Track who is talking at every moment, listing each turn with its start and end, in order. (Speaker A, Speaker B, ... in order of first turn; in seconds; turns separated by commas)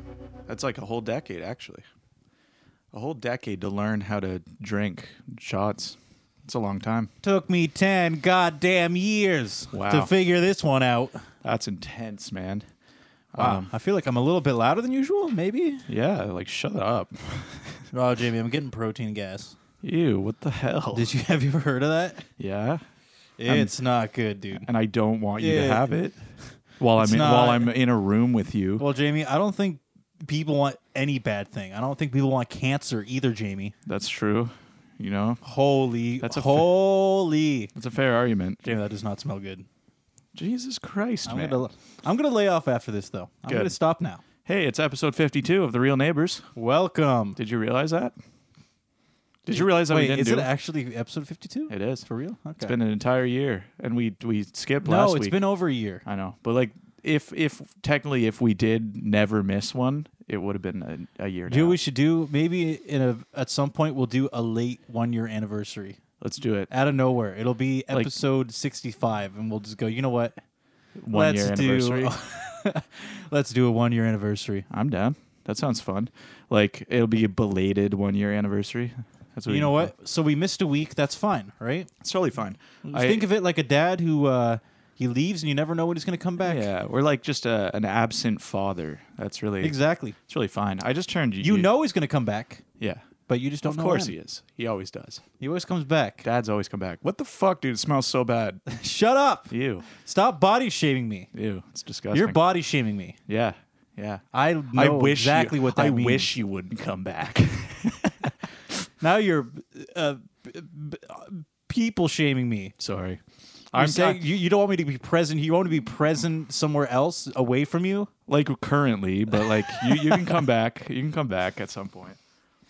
Speaker A: 0.5-1.8, Speaker A: 2.9-7.1, Speaker B: 7.2-11.2, Speaker A: 9.7-10.1, Speaker A: 11.4-12.7, Speaker A: 13.3-13.7, Speaker B: 13.3-15.8, Speaker A: 15.9-17.9, Speaker B: 17.9-19.5, Speaker A: 19.8-21.1, Speaker B: 20.9-22.3, Speaker A: 22.4-22.8, Speaker B: 23.4-24.7, Speaker A: 23.5-23.7, Speaker A: 24.5-28.8, Speaker B: 25.4-25.9, Speaker B: 27.0-27.7, Speaker B: 28.8-33.7, Speaker A: 33.9-35.4, Speaker B: 35.4-37.7, Speaker A: 36.2-36.7, Speaker A: 37.7-38.6, Speaker B: 38.6-39.6, Speaker A: 40.3-41.6, Speaker B: 41.2-44.2, Speaker A: 43.5-43.7, Speaker A: 44.4-46.5, Speaker B: 46.5-47.4, Speaker A: 47.4-48.1, Speaker A: 49.5-50.5, Speaker B: 49.5-52.7, Speaker A: 51.7-52.0, Speaker A: 52.6-55.4, Speaker B: 54.8-56.0, Speaker A: 56.0-61.8, Speaker B: 61.5-66.0, Speaker A: 66.2-66.7, Speaker B: 66.7-70.4, Speaker A: 71.0-72.1, Speaker B: 71.1-74.7, Speaker A: 74.7-79.9, Speaker B: 79.5-81.9, Speaker A: 82.0-83.3, Speaker B: 82.8-86.7, Speaker A: 86.4-89.8, Speaker B: 89.6-90.2, Speaker A: 90.3-91.7, Speaker B: 91.4-92.6, Speaker A: 92.8-93.1, Speaker B: 93.3-94.1, Speaker A: 93.6-95.2, Speaker B: 95.4-96.2, Speaker A: 96.2-98.6, Speaker B: 98.7-101.3, Speaker A: 99.5-99.8, Speaker A: 101.3-102.4, Speaker B: 102.1-103.2, Speaker A: 103.3-108.3, Speaker B: 104.3-106.3, Speaker B: 109.0-112.7, Speaker A: 112.8-114.2, Speaker B: 113.7-118.1, Speaker A: 118.3-122.2, Speaker B: 119.6-120.3